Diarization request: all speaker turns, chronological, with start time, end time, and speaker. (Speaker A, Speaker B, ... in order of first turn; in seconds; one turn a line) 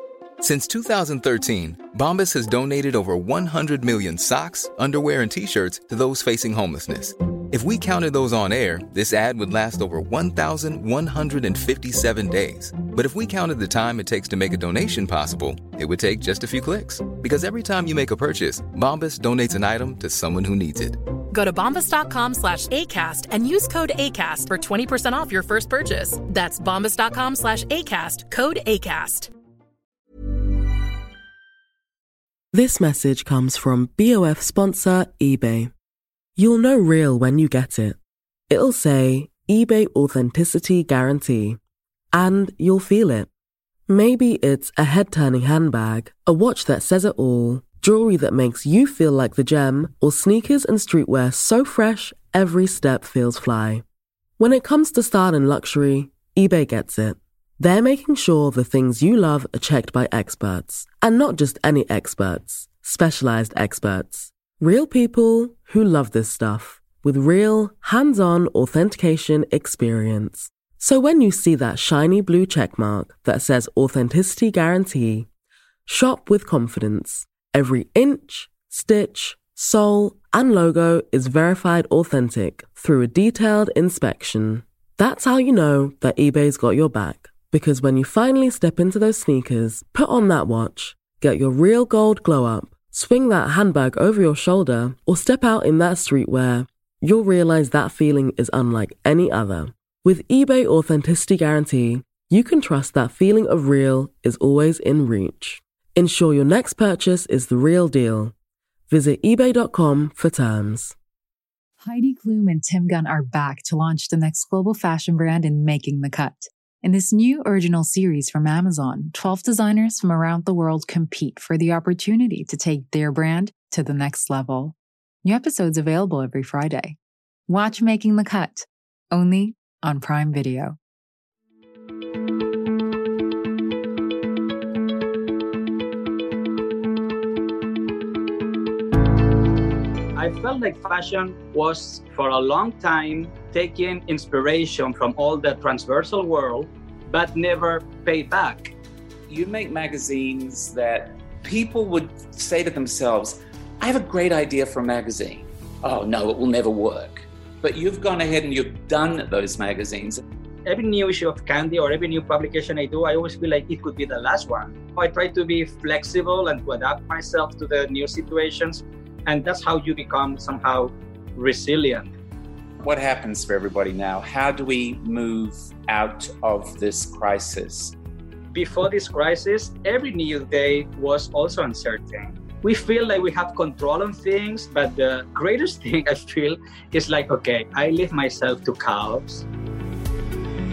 Speaker A: 0.4-21.0
Speaker B: 21.3-29.3
Speaker C: 32.5-35.7
Speaker C: 36.4-38.0
Speaker C: 38.5-41.6
Speaker C: 42.1-43.3
Speaker C: 43.9-53.8
Speaker C: 54.4-75.3
Speaker C: 75.8-108.3
Speaker C: 108.9-111.0
Speaker D: 111.8-127.0
Speaker D: 127.5-130.8
Speaker E: 140.1-148.7
Speaker F: 149.3-160.2
Speaker E: 160.7-172.1
Speaker F: 172.8-177.9
Speaker E: 178.5-189.4